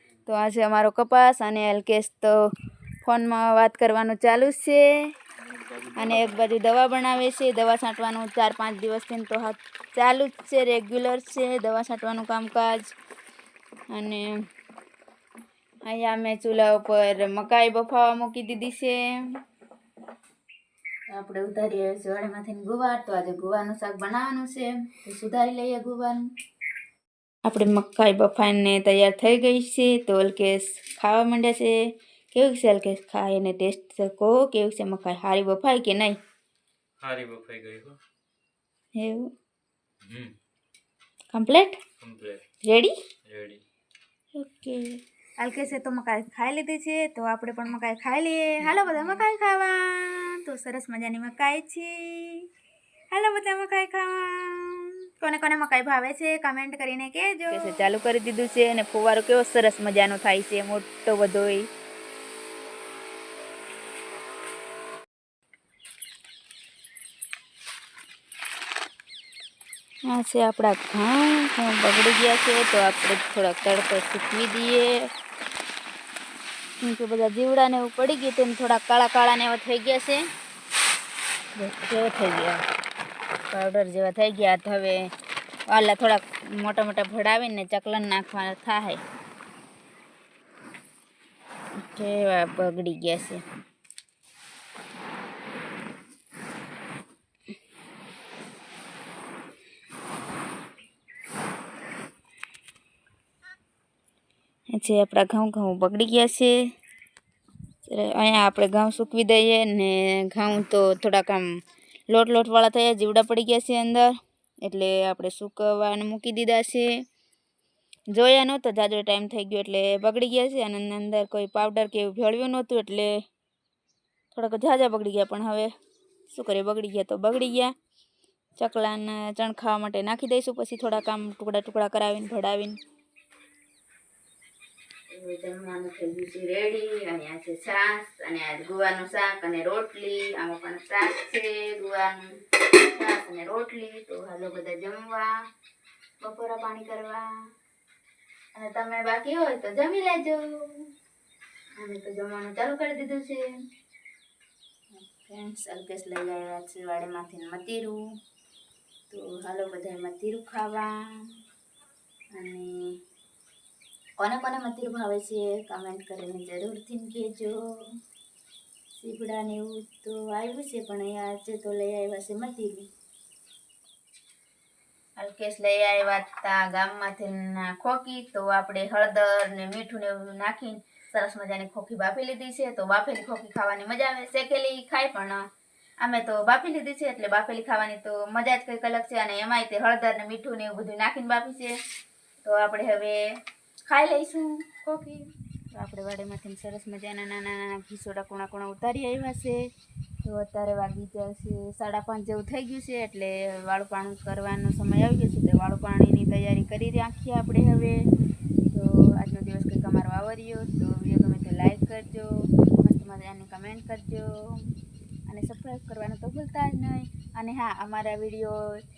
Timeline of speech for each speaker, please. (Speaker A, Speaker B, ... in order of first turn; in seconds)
Speaker A: 0.3-2.4, 3.0-4.9, 6.0-12.9, 13.9-14.3, 15.9-19.1, 21.1-26.2, 27.4-31.8, 32.3-36.2, 39.0-39.3, 41.3-41.8, 42.6-42.9, 44.4-45.0, 48.7-49.1, 57.5-61.7, 70.1-75.0, 76.8-80.2, 81.6-82.6, 83.5-85.1, 85.7-89.0, 91.8-93.4, 104.7-106.6, 107.9-111.5, 112.1-116.9, 118.1-123.2, 124.3-125.7, 126.3-127.7, 128.6-132.8, 135.1-145.3, 146.2-147.3, 148.6-150.9, 151.8-153.4, 154.9-158.0, 159.1-161.0, 162.3-162.8, 164.2-167.6, 169.0-172.9, 175.2-185.4, 186.0-191.7, 192.4-193.2, 193.9-199.7, 200.2-208.0, 208.7-214.7, 215.3-218.8
Speaker B: 37.0-38.0, 40.0-40.4, 42.0-42.4, 43.3-43.6
Speaker C: 45.4-52.5, 53.1-57.7